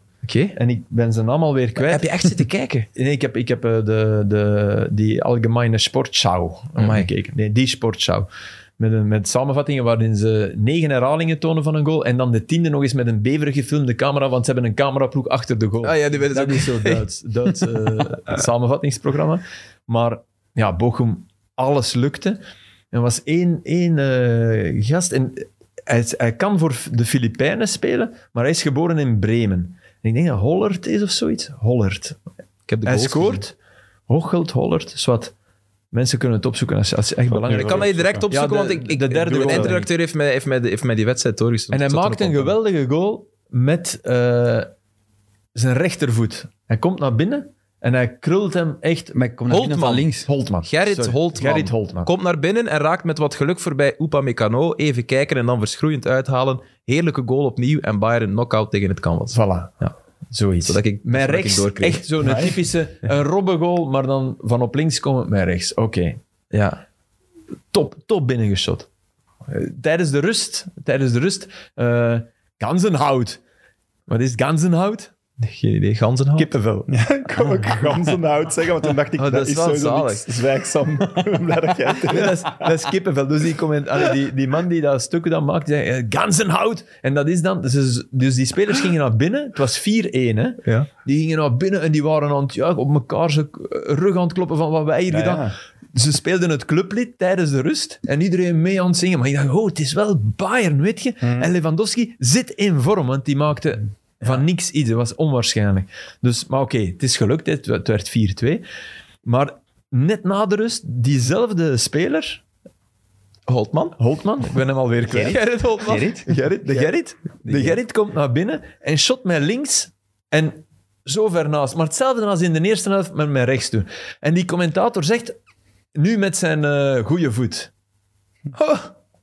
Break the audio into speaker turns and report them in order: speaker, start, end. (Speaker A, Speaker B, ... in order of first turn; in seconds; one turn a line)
Speaker A: 0.3-0.5
Speaker B: 0.5-2.3
Speaker A: 1.8-2.9
Speaker B: 3.0-8.3
Speaker A: 6.8-7.1
Speaker B: 8.8-22.4
Speaker A: 15.8-17.0
Speaker B: 22.9-32.2
Speaker A: 32.7-33.4
Speaker B: 32.9-33.5
Speaker B: 34.1-35.3
Speaker B: 35.9-39.9
Speaker C: 37.3-38.3
Speaker A: 37.5-42.5
Speaker C: 39.3-39.8
Speaker B: 41.7-44.7
Speaker B: 45.5-49.2
Speaker D: 49.1-50.3
Speaker A: 49.5-50.1
Speaker B: 50.3-52.1
Speaker A: 50.6-59.9
Speaker B: 59.3-59.7
Speaker B: 60.3-66.2
Speaker A: 60.6-62.1
Speaker C: 62.2-62.5
Speaker A: 66.5-66.8
Speaker B: 67.7-68.9
Speaker B: 69.5-73.4
Speaker B: 74.1-75.1
Speaker A: 75.4-76.5
Speaker B: 76.4-77.9
Speaker C: 76.9-82.7
Speaker A: 79.2-80.2
Speaker B: 82.1-108.6
Speaker C: 95.1-95.5
Speaker C: 101.2-101.5
Speaker B: 109.2-112.4
Speaker A: 113.5-114.0
Speaker B: 114.0-125.4
Speaker D: 115.1-116.9
Speaker B: 126.0-127.7
Speaker A: 128.6-128.8